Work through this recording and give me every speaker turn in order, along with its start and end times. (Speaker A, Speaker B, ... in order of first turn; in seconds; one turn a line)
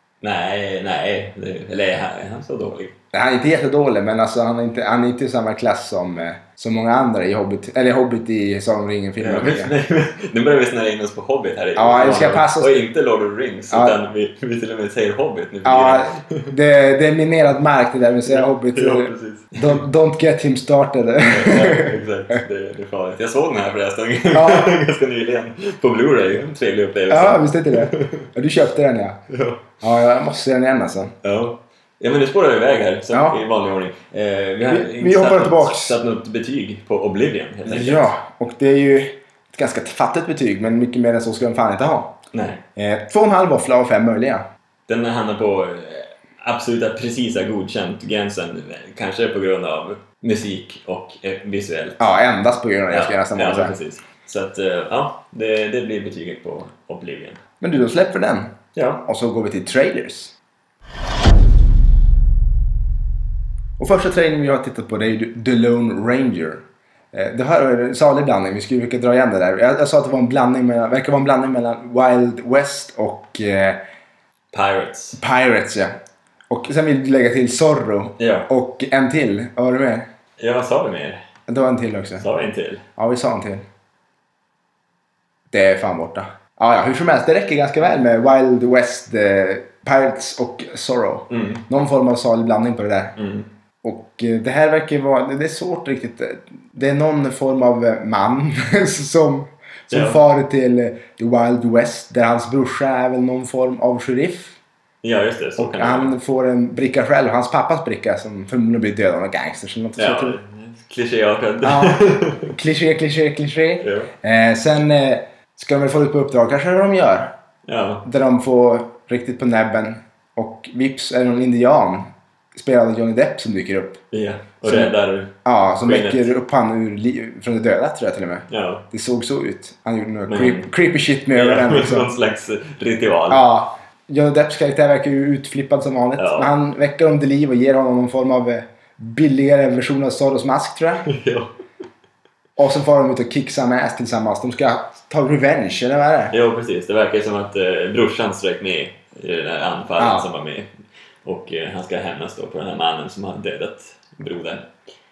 Speaker A: 0.2-2.9
Speaker B: 3.1-9.7
Speaker A: 9.2-16.5
Speaker B: 11.8-12.8
Speaker B: 13.7-14.0
Speaker B: 15.6-22.0
Speaker A: 18.3-19.8
Speaker A: 21.2-28.3
Speaker B: 24.3-24.7
Speaker B: 27.1-29.2
Speaker A: 29.3-29.7
Speaker B: 29.8-31.1
Speaker A: 31.2-38.1
Speaker B: 33.1-33.4
Speaker B: 34.7-36.0
Speaker B: 37.6-42.2
Speaker A: 42.3-42.6
Speaker B: 42.8-44.4
Speaker A: 44.9-52.0
Speaker B: 52.0-53.8
Speaker A: 52.9-57.4
Speaker B: 57.6-60.3
Speaker A: 58.7-59.0
Speaker B: 63.8-73.8
Speaker A: 74.5-75.2
Speaker B: 75.2-75.9
Speaker B: 76.5-80.1
Speaker A: 78.2-78.5
Speaker A: 80.4-81.2
Speaker B: 81.5-82.2
Speaker A: 82.2-82.8
Speaker B: 83.0-83.6
Speaker B: 85.5-93.2
Speaker A: 91.3-91.6
Speaker A: 93.2-93.5
Speaker B: 93.8-104.6
Speaker A: 99.9-100.2
Speaker A: 105.0-106.2
Speaker B: 105.6-110.4
Speaker A: 110.0-112.5
Speaker B: 111.6-117.3
Speaker A: 113.8-114.1
Speaker A: 117.7-118.1
Speaker B: 118.0-124.0
Speaker A: 124.1-126.3
Speaker B: 124.6-124.9
Speaker B: 125.4-132.1
Speaker A: 128.5-128.8
Speaker A: 130.3-130.7
Speaker A: 131.3-133.4
Speaker B: 133.3-141.1
Speaker A: 136.2-136.5
Speaker A: 141.1-141.5
Speaker B: 142.6-146.3
Speaker A: 146.3-150.7
Speaker B: 150.0-150.3
Speaker A: 151.2-154.7